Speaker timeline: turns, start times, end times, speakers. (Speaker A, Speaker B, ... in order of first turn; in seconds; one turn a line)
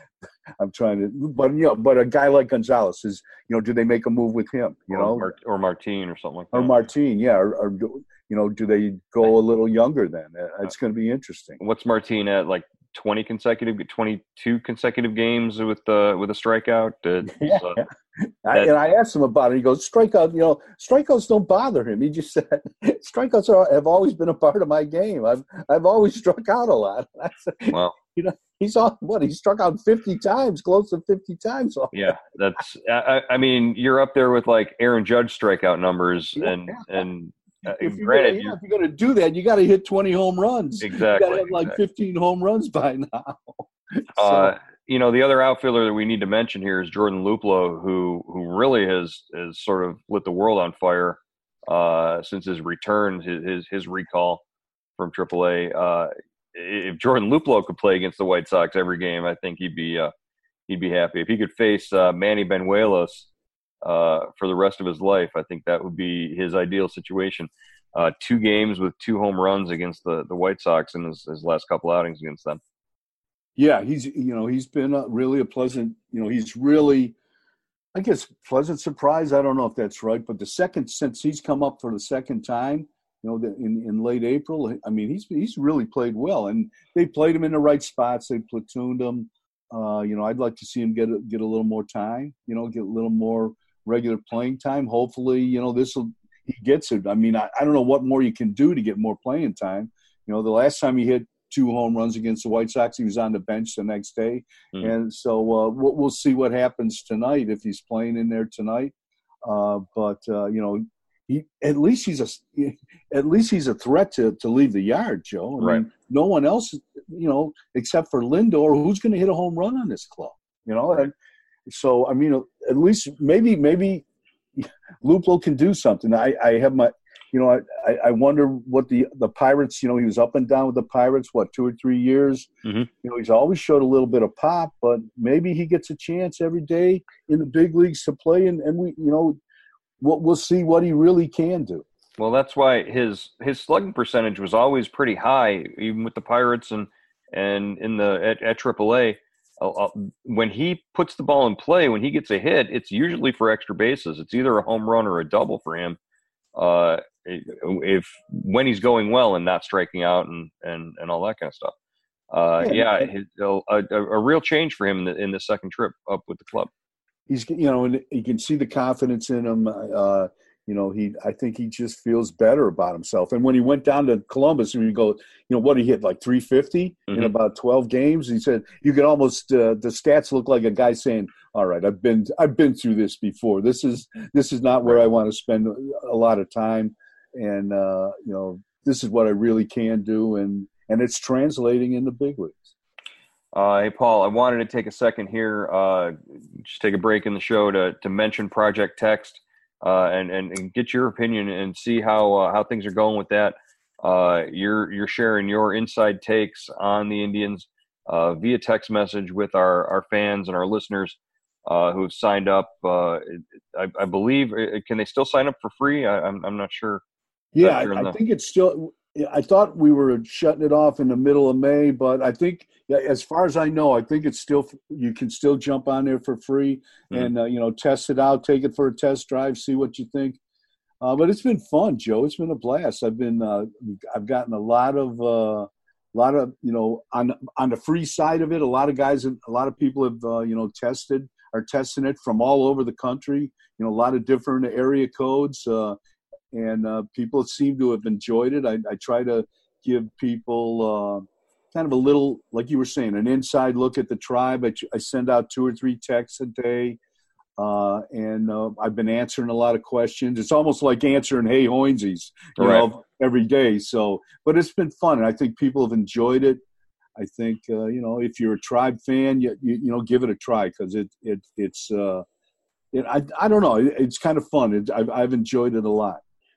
Speaker A: 0.6-5.3
Speaker B: 4.9-6.8
Speaker A: 6.5-11.6
Speaker B: 11.6-17.8
Speaker A: 17.3-32.1
Speaker B: 27.7-27.9
Speaker B: 31.9-38.5
Speaker A: 36.4-37.0
Speaker A: 37.7-44.5
Speaker B: 40.8-41.8
Speaker B: 44.2-54.4
Speaker B: 55.0-60.1
Speaker B: 60.7-63.3
Speaker B: 63.8-72.6
Speaker A: 73.6-77.1
Speaker A: 77.9-108.9
Speaker A: 109.4-121.1
Speaker B: 115.6-115.8
Speaker A: 121.7-124.0
Speaker A: 124.5-132.5
Speaker A: 133.0-139.4
Speaker A: 140.0-141.8
Speaker B: 142.2-156.0
Speaker B: 156.5-161.7
Speaker B: 162.3-166.7
Speaker A: 162.6-163.1
Speaker A: 167.3-192.7
Speaker B: 193.5-217.0
Speaker A: 217.5-230.4
Speaker B: 217.6-218.2
Speaker A: 231.0-246.0
Speaker A: 246.5-257.0
Speaker A: 257.6-266.6
Speaker B: 262.6-262.9
Speaker A: 267.2-272.2
Speaker A: 272.9-276.2